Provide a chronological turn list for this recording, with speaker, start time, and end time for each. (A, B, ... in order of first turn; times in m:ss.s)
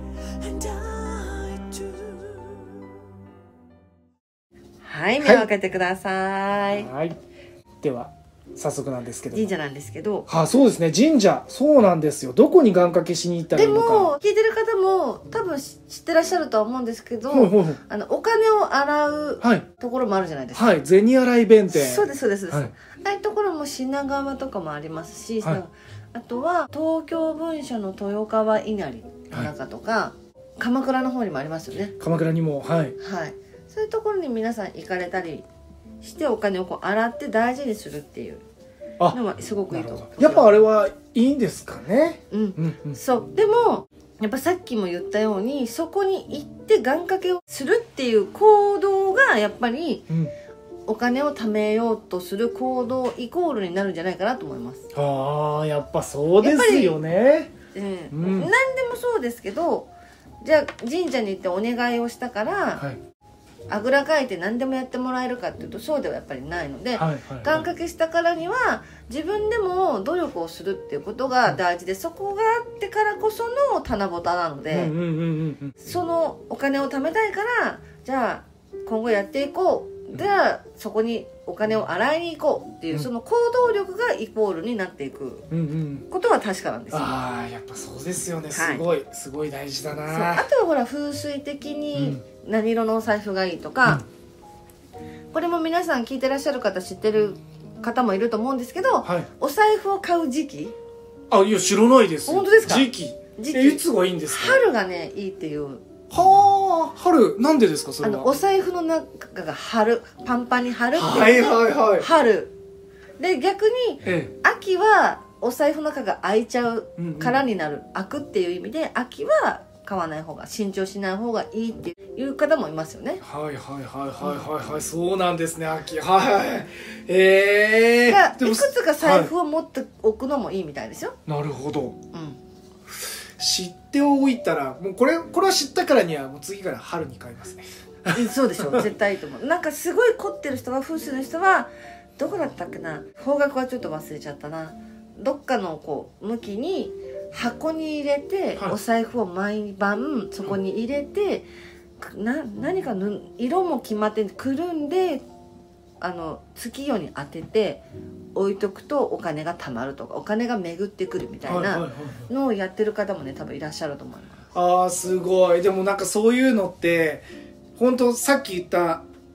0:00.5-0:02.0 A
0:04.8-0:06.9 A
0:05.2-0:05.5 B
0:06.6-0:07.2 B
0:07.8-0:09.5 B
0:09.3-0:10.3 A
0:10.3-0:14.1 B
0:13.5-0:20.8 A
0:17.3-0:17.8 B
0:19.4-0:19.6 B
0:20.5-0:22.7 B
0:21.7-0:31.9 A
0:32.0-0:33.0 B
0:33.0-0:35.4 A
0:36.0-0:38.4 A
0:39.1-0:40.6 A
0:39.7-0:43.0 B
0:42.3-0:50.1 A
0:50.9-0:54.8 A
0:54.9-0:57.5 B
0:56.4-0:57.0 A
0:57.7-0:59.9 A
0:58.1-0:58.5 B
1:00.4-1:02.8 A
1:03.7-1:14.9 A
1:06.9-1:07.6 B
1:14.7-1:15.8 B
1:15.8-1:25.5 A
1:25.5-1:26.1 B
1:26.1-1:27.1 A
1:26.9-1:30.5 B
1:28.5-1:28.8 A
1:30.1-1:34.0 A
1:31.9-1:32.2 B
1:35.3-1:40.7 A
1:41.3-1:44.6 B
1:42.3-1:45.8 A
1:46.1-1:48.3 B
1:48.0-1:52.5 A
1:50.9-1:52.1 B
1:53.2-2:03.2 A
1:54.0-1:54.3 B
1:57.0-1:57.4 B
2:03.2-2:09.3 B
2:04.2-2:04.5 A
2:08.1-2:11.2 A
2:11.3-2:12.0 B
2:12.1-2:12.4 A
2:12.9-2:18.8 B
2:18.1-2:31.5 A
2:32.0-2:35.2 A
2:36.0-2:37.8 A
2:38.3-2:44.5 A
2:41.4-2:42.3 B
2:44.5-2:47.2 B
2:47.8-2:49.0 B